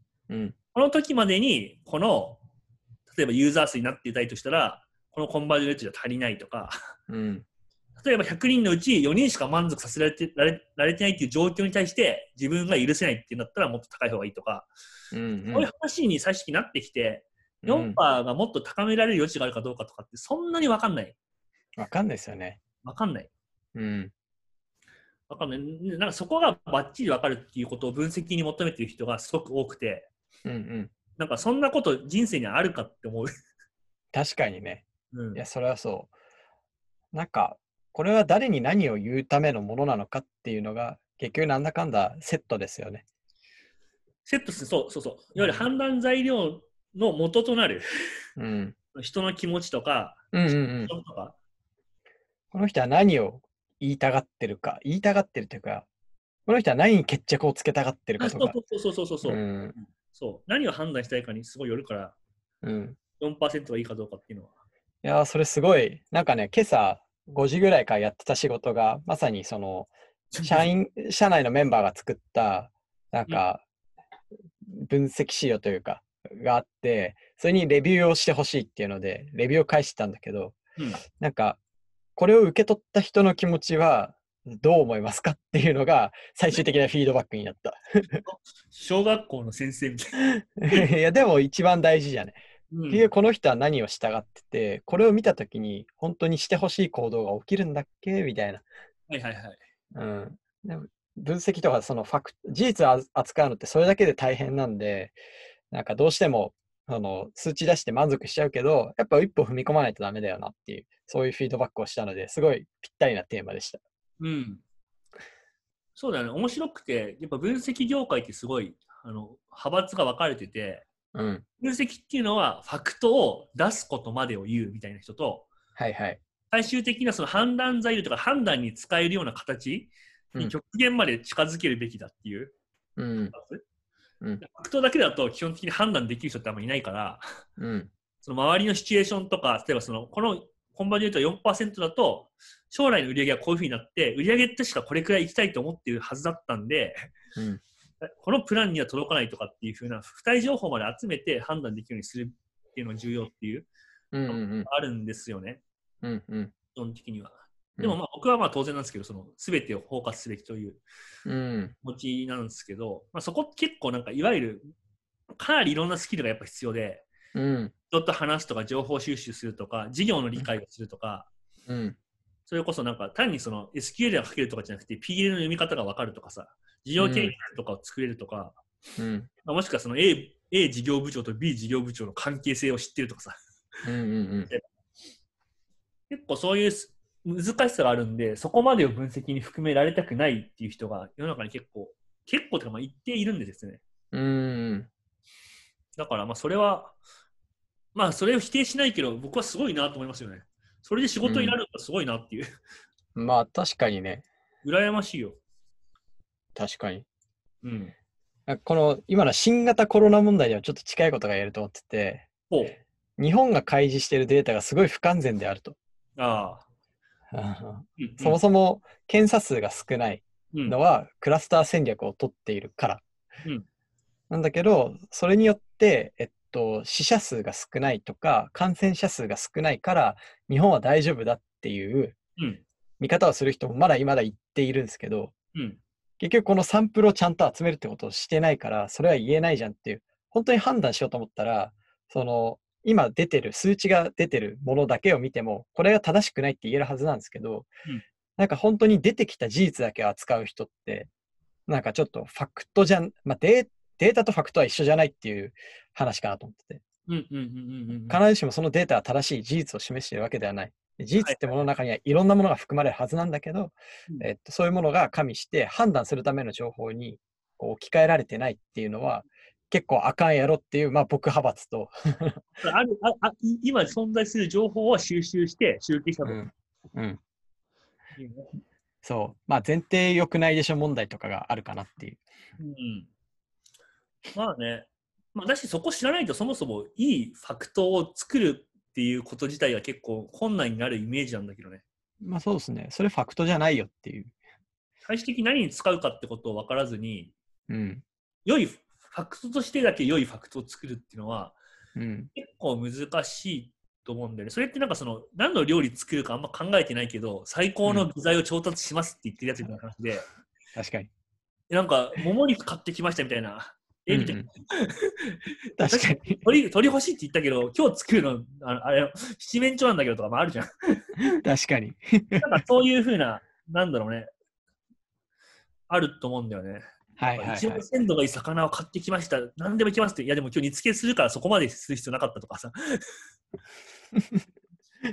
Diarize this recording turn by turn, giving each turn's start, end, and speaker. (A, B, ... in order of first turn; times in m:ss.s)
0:00.3-0:00.5 A
0:00.7-0:02.4 B
0:03.1-0:06.7 B
0:07.1-0:07.4 A
0:08.0-0:14.7 B
0:15.1-0:15.7 A
0:15.5-0:21.2 B
0:17.6-0:18.0 A
0:21.8-0:22.6 A
0:22.8-0:23.3 B
0:23.7-0:24.1 A
0:25.3-0:30.1 B
0:30.4-0:30.9 A
0:31.2-0:33.3 B
0:34.1-0:36.1 A
0:35.1-0:35.4 B
0:37.1-0:43.0 A
0:44.2-0:47.8 B
0:45.4-0:45.6 A
0:48.4-0:48.7 A
0:48.9-0:50.2 B
0:50.3-0:50.9 A
0:50.8-0:51.4 B
0:52.5-0:55.9 A
0:56.5-0:58.6 A
0:58.2-0:59.4 B
0:59.2-0:59.8 A
1:00.1-1:02.2 B
1:02.6-1:03.0 A
1:03.2-1:04.5 B
1:05.0-1:13.6 A
1:10.3-1:10.7 B
1:14.6-1:20.6 A
1:21.2-1:21.6 A
1:22.2-1:28.2 A
1:28.2-1:30.9 B
1:30.6-1:32.4 A
1:32.7-1:33.1 B
1:32.9-1:38.6 A
1:39.1-1:39.6 B
1:39.9-1:45.1 A
1:45.7-1:53.8 A
1:54.2-1:54.6 B
1:56.0-2:00.8 B
2:01.1-2:01.4 A
2:01.6-2:05.5 B
2:05.8-2:06.2 A
2:06.5-2:12.5 B
2:13.0-2:13.3 A
2:13.3-2:13.6 B
2:14.4-2:17.2 B
2:17.6-2:17.9 A
2:18.2-2:27.1 B
2:28.0-2:33.7 B
2:34.1-2:34.7 A
2:34.3-2:35.6 B
2:36.0-2:36.5 A
2:36.7-2:40.8 B
2:41.2-2:41.7 A
2:41.8-2:44.6 B
2:45.4-2:47.1 B
2:47.3-2:47.7 A
2:47.9-2:51.3 B
2:51.7-2:52.0 A
2:52.5-2:58.6 B
2:57.0-2:57.4 A
2:59.0-2:59.3 A
2:59.4-3:03.3 B
3:03.8-3:04.5 A
3:06.1-3:13.8 B
3:14.1-3:14.9 A
3:16.0-3:17.0 B
3:17.9-3:22.4 B
3:21.2-3:21.6 A
3:23.2-3:24.2 A
3:24.6-3:25.4 B
3:26.6-3:27.0 A
3:27.6-3:27.9 B
3:28.5-3:32.3 A
3:32.5-3:32.8 B
3:33.2-3:35.8 A
3:36.2-3:36.6 B
3:37.3-3:43.0 A
3:38.0-3:38.4 B
3:44.3-3:52.2 A
3:52.4-3:52.6 B
3:53.0-3:55.3 A
3:55.5-3:55.8 B
3:56.2-4:07.7 A
4:08.4-4:11.1 A
4:11.7-4:16.8 A
4:17.1-4:18.2 B
4:18.1-4:32.4 A
4:32.6-4:36.4 B
4:36.2-4:37.2 A
4:38.2-4:38.5 B
4:39.0-4:42.2 A
4:42.6-4:43.1 B
4:44.3-4:51.8 B
4:52.2-4:54.3 A
4:55.0-4:57.3 B
4:57.7-4:58.0 A
4:58.4-5:01.6 B
5:02.0-5:02.3 A
5:02.3-5:10.2 B
5:10.7-5:11.1 A
5:11.7-5:21.0 B
5:14.1-5:14.5 A
5:15.8-5:16.4 A
5:21.3-5:22.4 A
5:22.4-5:24.3 B
5:25.9-5:26.8 B
5:27.2-5:27.8 A
5:27.3-5:33.0 B
5:34.2-5:34.4 A